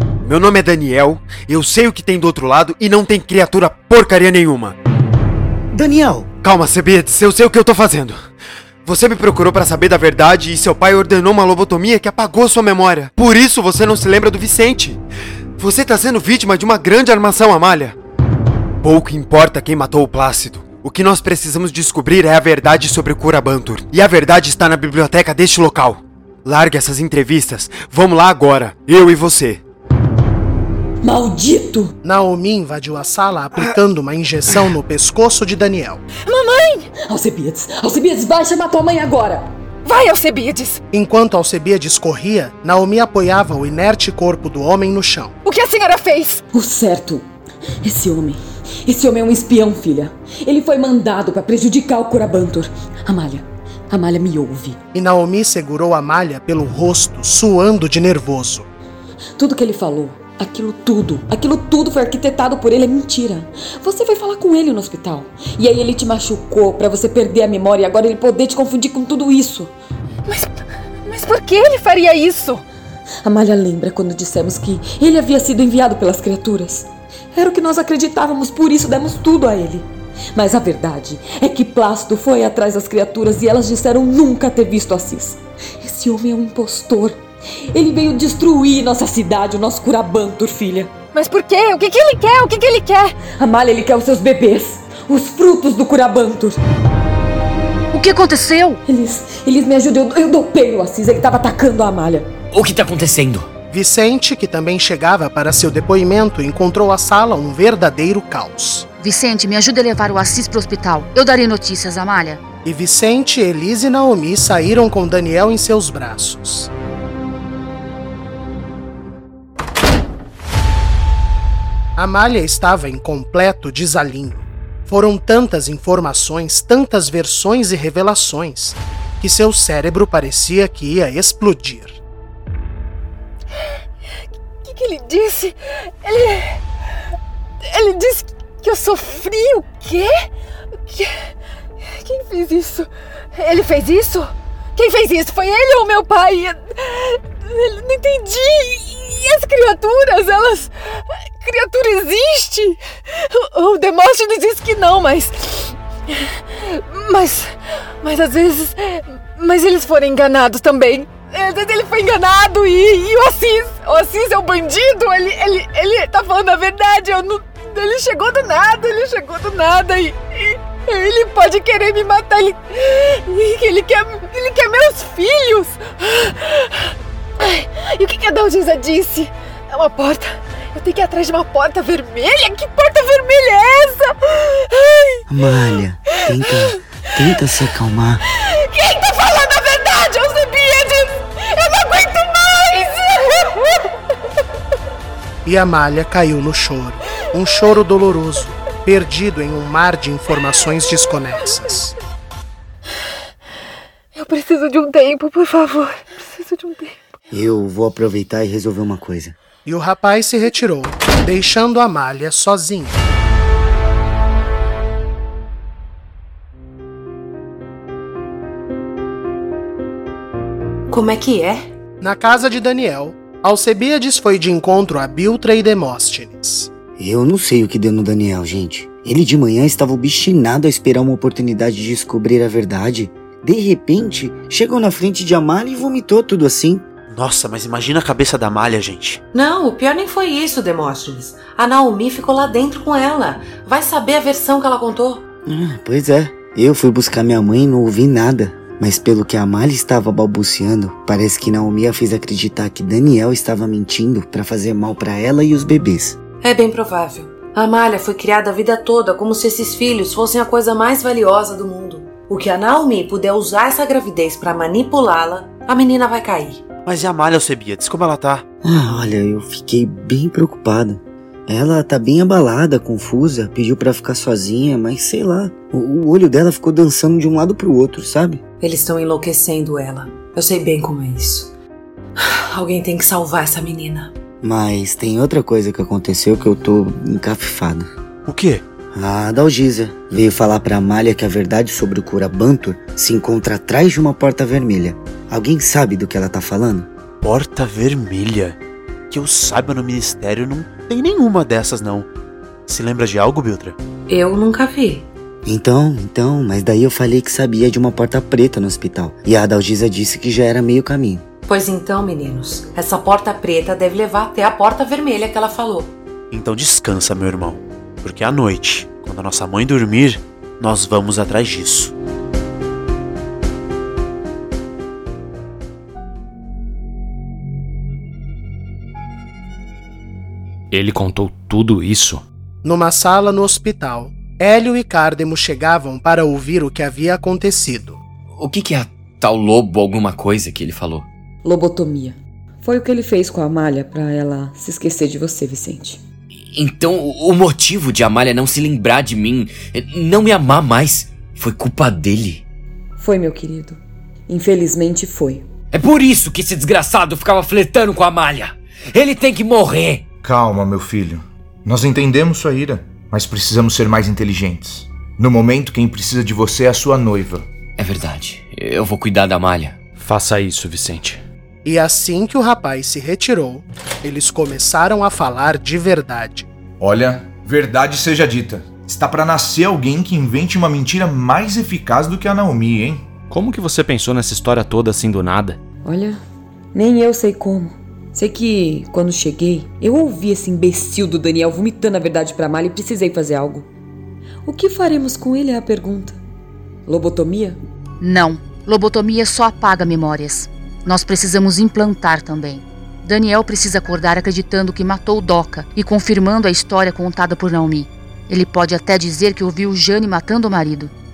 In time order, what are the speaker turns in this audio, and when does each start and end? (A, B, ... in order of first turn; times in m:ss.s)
0:00.2-0:04.8 A
0:05.7-0:06.3 B
0:06.4-0:08.3 A
0:08.8-0:15.0 A
0:15.6-0:18.0 A
0:18.8-0:29.6 A
0:31.0-0:32.0 C
0:32.0-0:36.0 D
0:36.2-0:36.9 E
0:37.0-0:39.5 C
0:39.8-0:40.8 E
0:40.9-0:45.4 D
0:45.4-0:46.4 E
0:46.5-0:47.3 C
0:47.8-0:54.8 C
0:54.9-0:58.7 D
0:59.4-1:09.7 C
1:10.3-1:12.6 E
1:13.2-1:30.9 C
1:31.1-1:33.2 E
1:33.4-1:36.6 C
1:37.9-1:38.8 F
1:38.9-1:42.3 C
1:42.5-1:43.5 G
1:43.7-1:48.9 D
1:49.0-1:52.4 F
1:52.6-1:56.7 D
2:02.0-2:12.0 D
2:14.6-2:16.6 E
2:17.6-2:20.2 E
2:20.9-2:21.2 E
2:21.8-3:05.2 E
3:05.3-3:08.2 B
3:08.4-3:14.0 E
3:15.4-3:21.9 D
3:24.2-3:27.0 E
3:27.3-3:29.4 B
3:29.7-3:33.0 D
3:40.9-3:41.7 H
3:42.0-3:46.7 D
3:47.0-3:56.8 B
3:57.1-3:59.2 I
3:59.3-4:05.2 H
4:05.4-4:16.2 B
4:16.4-4:26.7 H
4:26.8-4:28.4 I
4:28.6-4:38.4 B
4:38.6-4:41.5 H
4:42.2-4:44.1 H
4:44.4-4:47.9 B
4:48.3-4:48.6 I
4:48.9-4:56.9 B
4:57.2-4:58.6 I
4:59.1-5:02.1 I
5:02.7-5:03.8 I
5:04.1-5:05.1 H
5:05.4-5:11.2 B
5:11.5-5:15.9 H
5:16.3-5:21.9 I
5:30.7-5:32.2 J
5:32.6-5:38.0 D
5:38.4-5:41.1 G
5:41.4-5:46.0 C
5:46.4-5:52.4 G
5:53.0-5:55.5 C
5:55.7-6:00.0 G
6:00.2-6:07.5 K
6:07.8-6:09.8 G
6:10.0-6:11.2 J
6:11.6-6:16.5 D
6:16.8-6:23.1 K
6:23.3-6:25.6 J
6:25.8-6:26.2 C
6:26.7-6:33.7 C
6:34.4-6:36.2 C
6:36.9-6:37.6 C
6:38.0-6:50.9 F